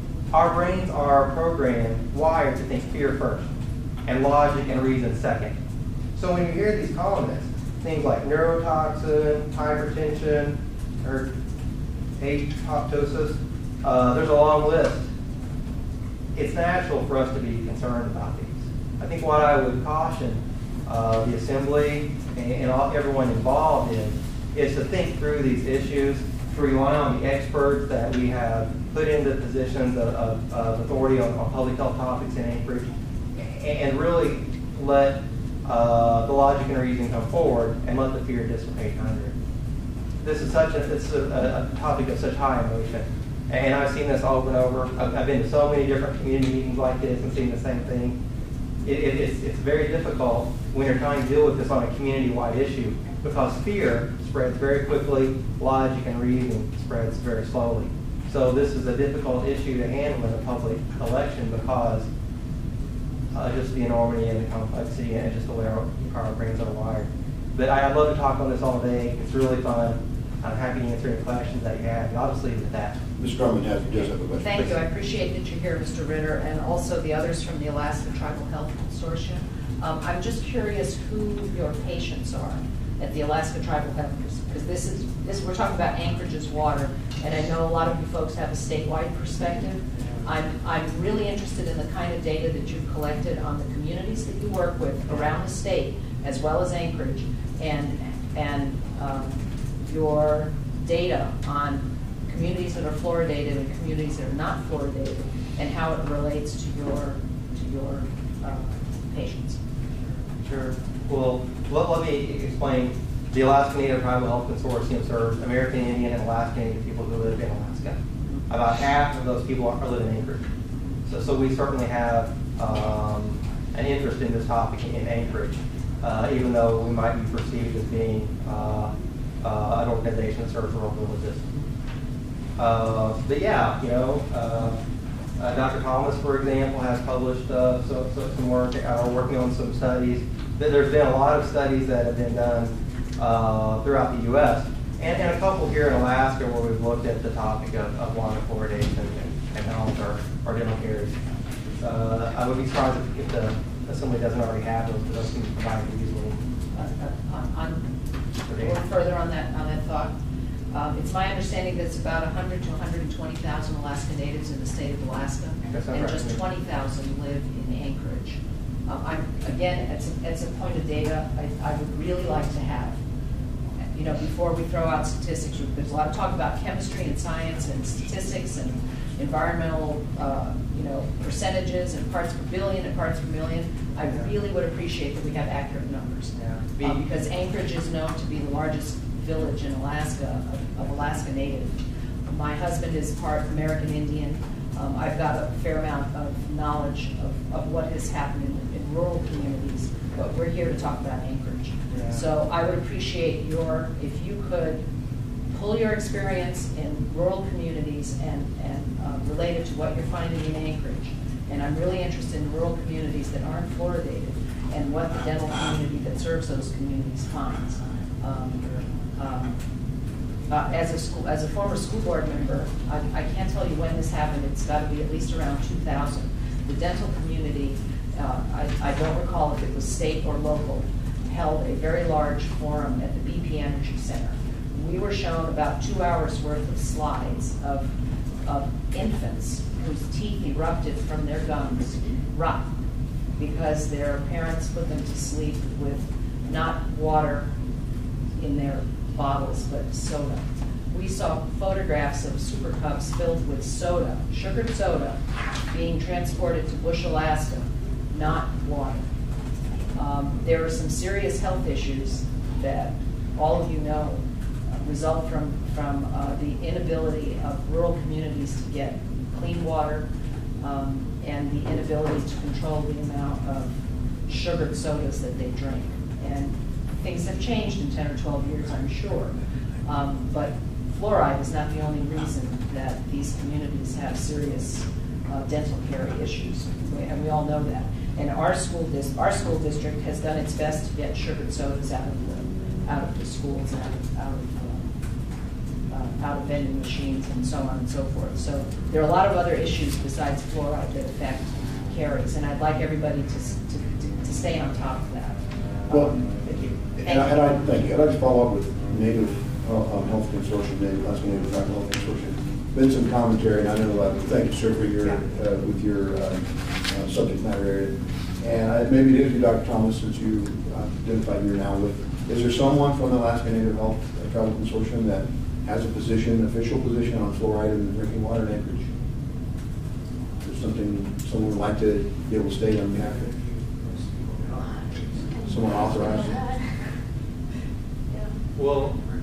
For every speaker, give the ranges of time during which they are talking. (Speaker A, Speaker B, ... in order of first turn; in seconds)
Speaker A: 0.3-3.5, 4.0-5.5, 6.1-11.3, 12.2-15.1, 16.3-39.3, 40.2-48.2, 48.8-62.1, 63.3-73.0, 110.4-118.0, 118.5-120.4, 121.0-131.5, 132.6-134.8, 135.4-151.2, 151.8-156.4, 158.5-158.8, 165.6-166.4, 186.3-187.1, 201.9-202.2, 338.6-338.9
Speaker B: 73.2-74.8, 305.9-306.2, 306.8-328.9, 330.4-333.3, 335.4-336.4
Speaker C: 74.4-109.6, 156.7-157.9, 158.6-160.2, 160.7-173.0, 173.9-204.8, 205.5-219.6, 220.5-237.9, 238.4-242.7, 243.4-247.5, 248.4-255.2, 255.7-259.0, 259.9-264.2, 264.8-270.1, 270.6-273.7, 274.3-294.9, 295.9-305.4, 307.0-307.5